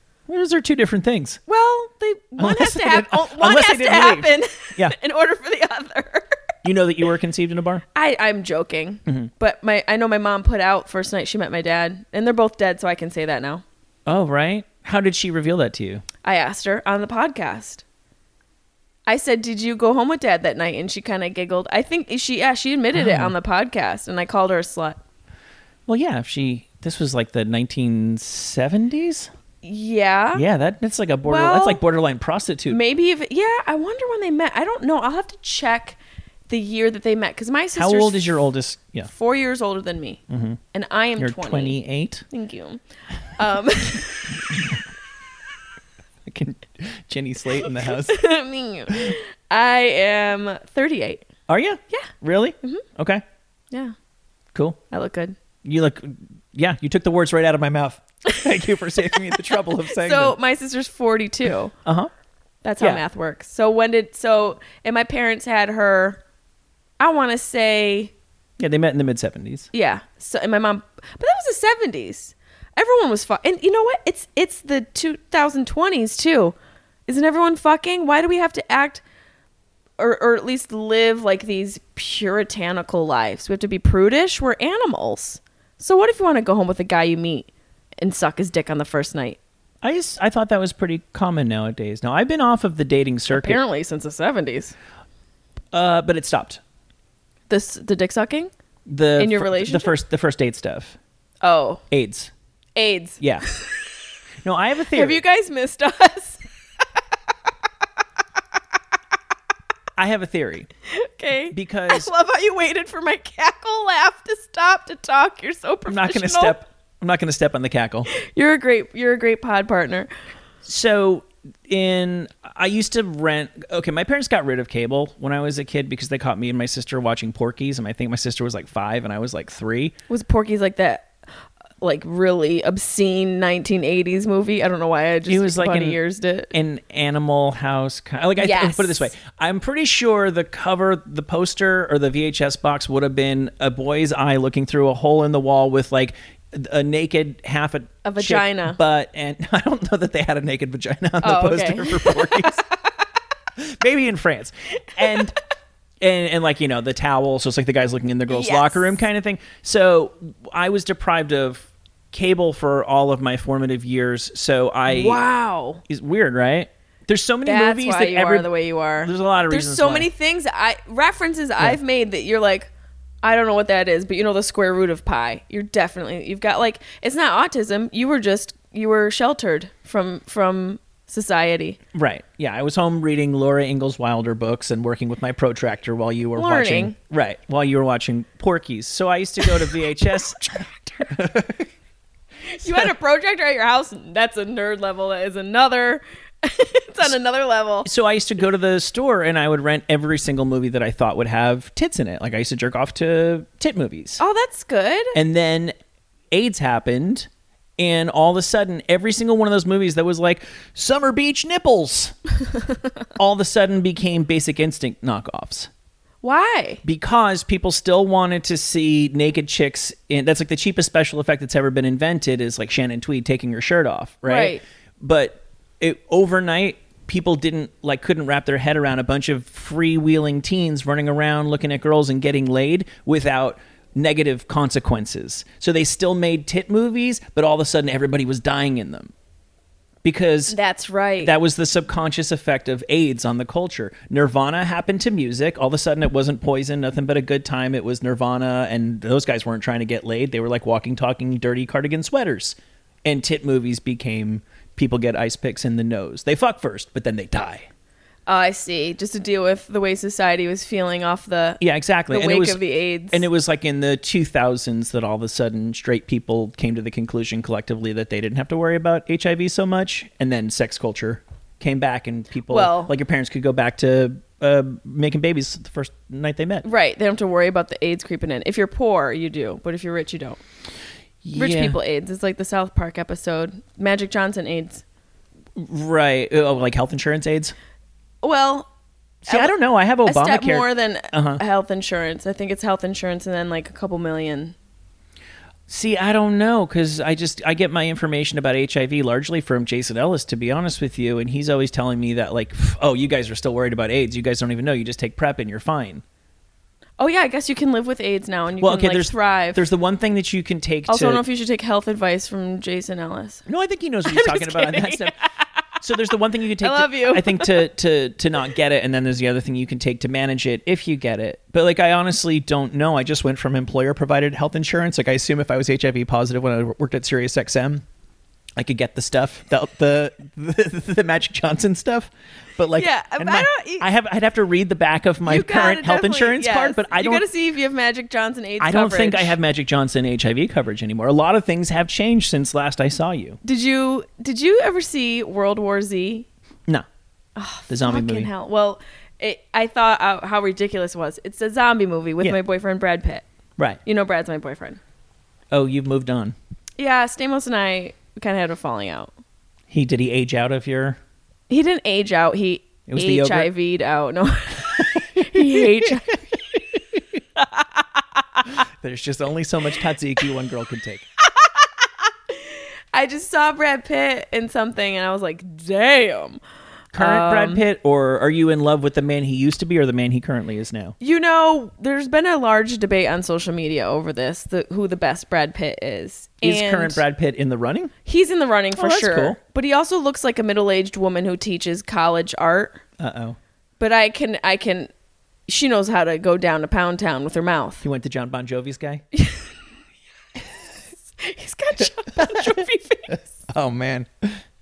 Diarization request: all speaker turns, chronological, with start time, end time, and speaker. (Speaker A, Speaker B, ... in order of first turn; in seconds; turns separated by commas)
Speaker A: 0.3-1.4, Speaker B: 1.5-6.4, Speaker A: 2.4-5.0, Speaker A: 6.7-7.8, Speaker B: 7.9-13.6, Speaker A: 14.1-16.0, Speaker B: 16.2-17.8, Speaker B: 19.1-25.0, Speaker A: 22.9-23.4, Speaker A: 25.9-29.3, Speaker B: 29.6-30.4, Speaker A: 30.3-32.8, Speaker B: 31.2-31.8, Speaker B: 32.7-38.2, Speaker A: 37.8-39.1, Speaker B: 39.1-40.2, Speaker A: 40.3-40.6, Speaker B: 40.7-41.8, Speaker A: 41.2-42.2, Speaker B: 42.3-42.8, Speaker B: 43.4-44.6, Speaker A: 46.2-48.2, Speaker B: 47.7-51.2, Speaker A: 51.5-53.2, Speaker B: 54.9-55.4, Speaker A: 55.6-60.4, Speaker B: 58.4-61.7, Speaker A: 61.9-62.1, Speaker B: 62.6-66.2, Speaker B: 67.0-68.1, Speaker A: 68.6-69.7, Speaker B: 69.7-76.6, Speaker B: 77.1-79.0, Speaker B: 80.0-89.4, Speaker A: 89.8-93.6, Speaker B: 93.3-94.8, Speaker A: 95.7-96.6, Speaker B: 97.5-98.5, Speaker A: 98.9-101.0, Speaker B: 99.2-99.9, Speaker B: 101.4-101.8, Speaker A: 101.9-102.3, Speaker B: 102.8-103.8, Speaker A: 103.2-103.5, Speaker A: 104.4-105.2, Speaker B: 104.9-106.5, Speaker A: 110.0-110.7, Speaker B: 110.9-116.6, Speaker A: 111.5-112.1, Speaker A: 115.9-118.1, Speaker B: 118.1-120.1, Speaker A: 120.7-129.9, Speaker B: 130.1-131.1, Speaker B: 131.8-136.5, Speaker A: 135.3-136.0, Speaker A: 136.5-152.7, Speaker B: 138.4-139.1, Speaker B: 148.0-148.8, Speaker B: 151.2-152.7, Speaker A: 153.6-155.4, Speaker B: 155.0-155.2, Speaker A: 156.0-165.2, Speaker B: 158.3-159.0, Speaker B: 164.9-165.8, Speaker A: 165.9-170.1, Speaker B: 167.4-172.7, Speaker B: 173.2-181.8, Speaker A: 181.9-191.7, Speaker B: 186.3-187.0, Speaker B: 192.5-197.9, Speaker A: 192.6-192.9, Speaker A: 197.8-204.2, Speaker B: 204.2-205.2, Speaker A: 205.1-205.7, Speaker A: 206.3-212.2, Speaker A: 213.2-215.7, Speaker B: 216.2-216.8, Speaker A: 216.8-239.1, Speaker B: 224.2-224.6, Speaker A: 240.0-240.6, Speaker B: 240.5-241.3, Speaker A: 241.2-257.7, Speaker B: 258.3-263.2, Speaker A: 261.6-262.6, Speaker A: 263.1-276.7, Speaker B: 272.5-272.9, Speaker B: 276.6-280.4, Speaker A: 281.2-281.8, Speaker B: 281.4-284.8, Speaker A: 285.6-287.5, Speaker B: 288.2-288.7, Speaker A: 289.2-291.4, Speaker B: 289.3-294.6, Speaker A: 295.7-306.0, Speaker B: 307.0-309.6, Speaker A: 308.6-311.2, Speaker B: 310.9-313.5, Speaker A: 313.5-315.2, Speaker B: 314.1-315.2, Speaker A: 315.8-327.8, Speaker B: 316.6-317.6, Speaker A: 328.6-337.2, Speaker B: 332.8-333.9, Speaker B: 335.2-339.4, Speaker A: 338.6-343.4, Speaker B: 343.4-346.3, Speaker B: 347.4-353.2, Speaker A: 347.7-348.3, Speaker B: 353.9-354.8, Speaker A: 355.5-356.4, Speaker B: 356.8-359.1, Speaker A: 359.7-361.0, Speaker B: 361.5-366.2, Speaker A: 362.9-363.5, Speaker A: 364.8-366.0, Speaker B: 367.4-368.2, Speaker A: 368.5-371.1, Speaker B: 371.2-376.4, Speaker A: 376.9-381.0, Speaker B: 376.9-377.6, Speaker B: 381.0-387.0, Speaker A: 386.4-387.9, Speaker B: 388.1-392.8, Speaker A: 388.8-389.4, Speaker A: 393.0-393.4, Speaker B: 393.8-394.9, Speaker B: 395.5-397.8, Speaker A: 397.8-399.0, Speaker B: 399.1-399.5, Speaker B: 401.1-403.3, Speaker A: 402.1-404.4